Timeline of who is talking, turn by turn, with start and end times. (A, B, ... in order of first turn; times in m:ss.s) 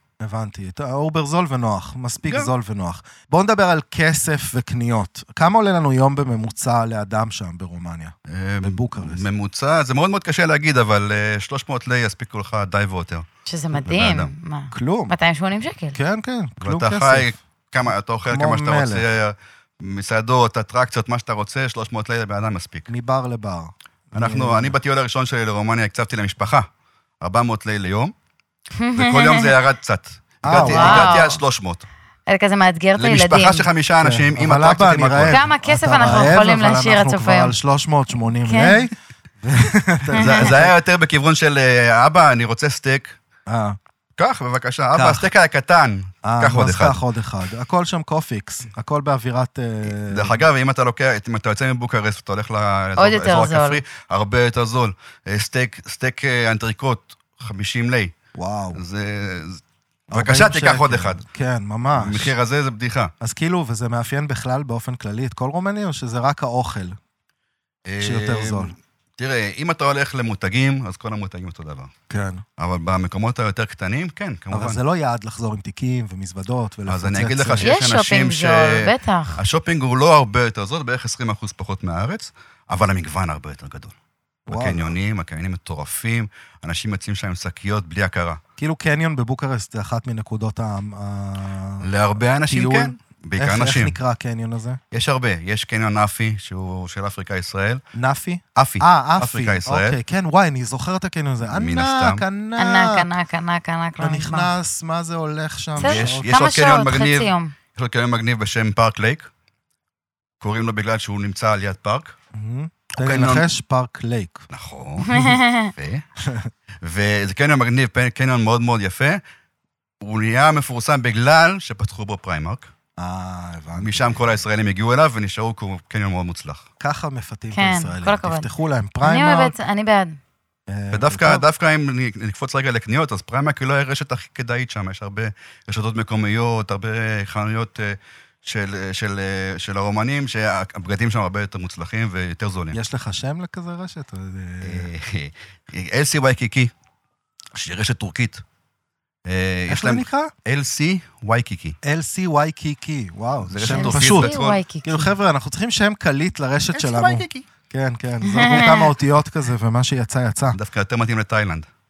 0:00.2-0:09.3 A
0:02.2-0:02.5 B
0:08.3-0:13.3 B
0:13.5-0:16.0 C
0:13.8-0:14.3 B
0:14.7-0:15.1 A
0:16.0-0:17.4 A
0:16.6-0:22.9 B
0:18.3-0:19.0 A
0:22.9-0:24.8 A
0:24.2-0:26.7 B
0:27.2-0:28.1 B
0:28.8-0:29.6 C
0:29.0-0:31.8 B
0:30.4-0:31.2 A
0:30.5-0:31.4 C
0:32.3-0:33.7 C
0:33.0-0:35.5 B
0:34.0-0:40.7 A
0:35.3-0:37.6 C
0:38.4-0:38.8 C
0:40.1-0:40.6 C
0:40.2-0:43.2 B
0:43.5-0:43.8 A
0:44.2-0:47.0 B
0:44.9-0:45.3 A
0:46.2-0:50.4 A
0:49.9-0:58.1 B
0:53.0-0:53.8 C
0:58.3-0:58.8 A
0:58.8-0:59.6 B
1:00.1-1:02.3 A
1:00.1-1:01.2 B
1:01.9-1:03.1 B
1:03.2-1:07.0 A
1:07.9-1:11.9 B
1:08.0-1:08.8 A
1:12.1-1:12.4 A
1:12.6-1:14.8 B
1:14.5-1:17.7 A
1:16.9-1:24.0 B
1:17.6-1:19.4 C
1:24.5-1:25.0 A
1:24.5-1:28.4 B
1:28.6-1:31.9 A
1:31.8-1:34.0 B
1:32.4-1:34.8 A
1:34.9-1:37.8 B
1:38.0-1:43.1 A
1:38.6-1:40.0 B
1:41.5-1:42.2 B
1:42.6-1:44.5 C
1:44.0-1:46.3 A
1:45.8-1:47.5 C
1:45.8-1:49.3 B
1:50.4-1:52.1 B
1:52.3-1:54.5 A
1:52.9-1:53.5 B
1:54.5-1:56.0 B
1:55.0-1:55.7 C
1:56.2-1:56.5 A
1:56.8-1:59.2 B
2:00.0-2:02.7 B
2:03.0-2:04.3 A
2:03.8-2:06.6 B
2:06.8-2:09.6 A
2:07.5-2:08.5 C
2:09.0-2:10.2 C
2:10.7-2:11.4 A
2:10.9-2:22.8 B
2:22.7-2:24.9 A
2:24.6-2:26.7 B
2:27.5-2:28.4 B
2:29.2-2:31.8 B
2:29.7-2:30.3 A
2:31.8-2:40.6 A
2:33.4-2:34.6 B
2:33.7-2:35.1 C
2:36.7-2:37.5 B
2:38.3-2:38.8 C
2:40.5-2:41.7 B